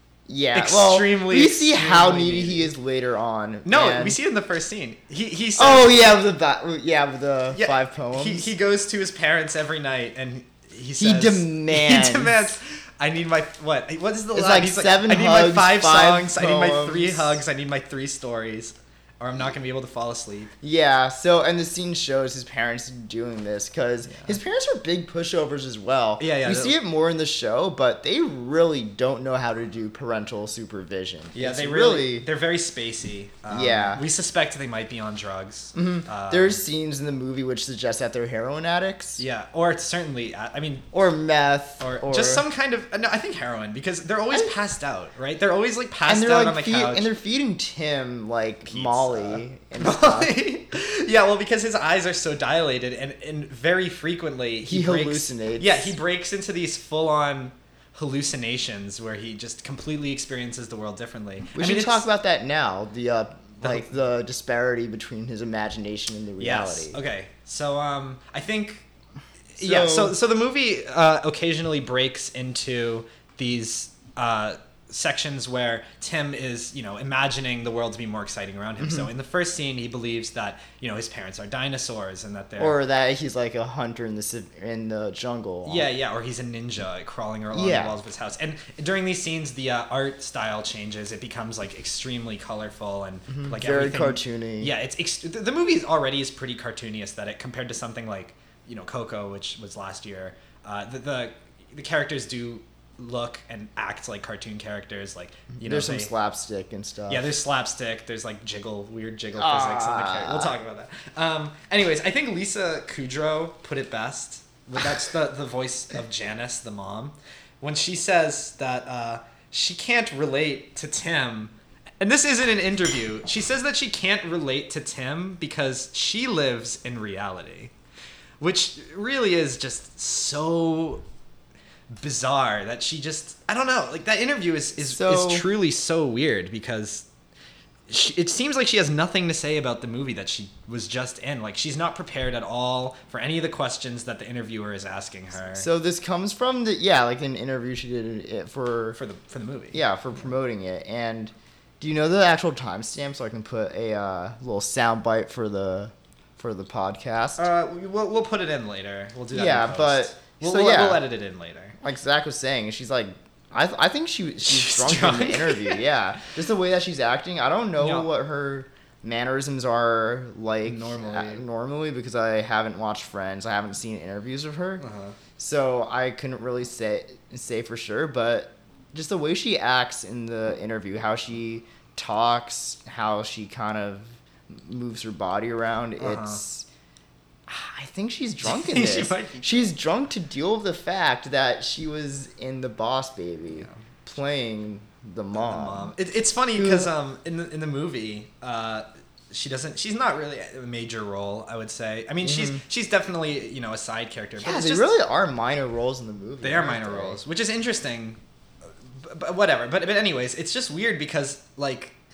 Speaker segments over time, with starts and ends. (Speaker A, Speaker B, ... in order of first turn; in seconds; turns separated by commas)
Speaker A: 0.3-4.2, Speaker B: 0.5-2.7, Speaker B: 3.6-6.1, Speaker A: 5.6-8.5, Speaker B: 7.5-20.5, Speaker A: 11.0-12.4, Speaker A: 14.3-17.4, Speaker A: 20.6-32.3, Speaker B: 24.1-24.3, Speaker B: 26.2-26.8, Speaker B: 31.3-36.6, Speaker A: 33.5-34.0, Speaker A: 35.7-39.2, Speaker B: 39.2-40.9, Speaker A: 40.9-42.4, Speaker B: 41.8-47.1, Speaker A: 46.1-50.3, Speaker B: 48.6-62.1, Speaker A: 54.6-55.9, Speaker A: 61.5-67.0, Speaker B: 63.6-63.9, Speaker B: 66.4-68.8, Speaker B: 69.5-82.8, Speaker A: 69.6-70.2, Speaker A: 78.8-79.1, Speaker A: 82.6-85.9, Speaker B: 85.6-106.1, Speaker A: 87.5-88.0, Speaker A: 93.3-94.7, Speaker A: 105.6-107.3, Speaker B: 107.1-127.7, Speaker A: 109.3-110.5, Speaker B: 128.4-131.0, Speaker B: 131.9-137.1, Speaker A: 134.8-135.4, Speaker B: 137.9-145.7, Speaker A: 145.5-149.0, Speaker B: 148.9-149.8, Speaker A: 149.7-157.5, Speaker B: 157.4-161.8, Speaker A: 159.3-161.0, Speaker A: 161.8-174.8, Speaker B: 164.4-165.8, Speaker B: 167.8-168.1, Speaker B: 170.6-171.4, Speaker B: 174.8-175.2, Speaker A: 175.4-186.7, Speaker B: 186.0-186.4, Speaker A: 187.5-195.9, Speaker B: 188.4-189.6, Speaker B: 195.3-204.9, Speaker A: 196.6-196.9, Speaker A: 202.2-202.6, Speaker A: 204.4-207.2, Speaker B: 206.4-208.2, Speaker B: 208.9-211.9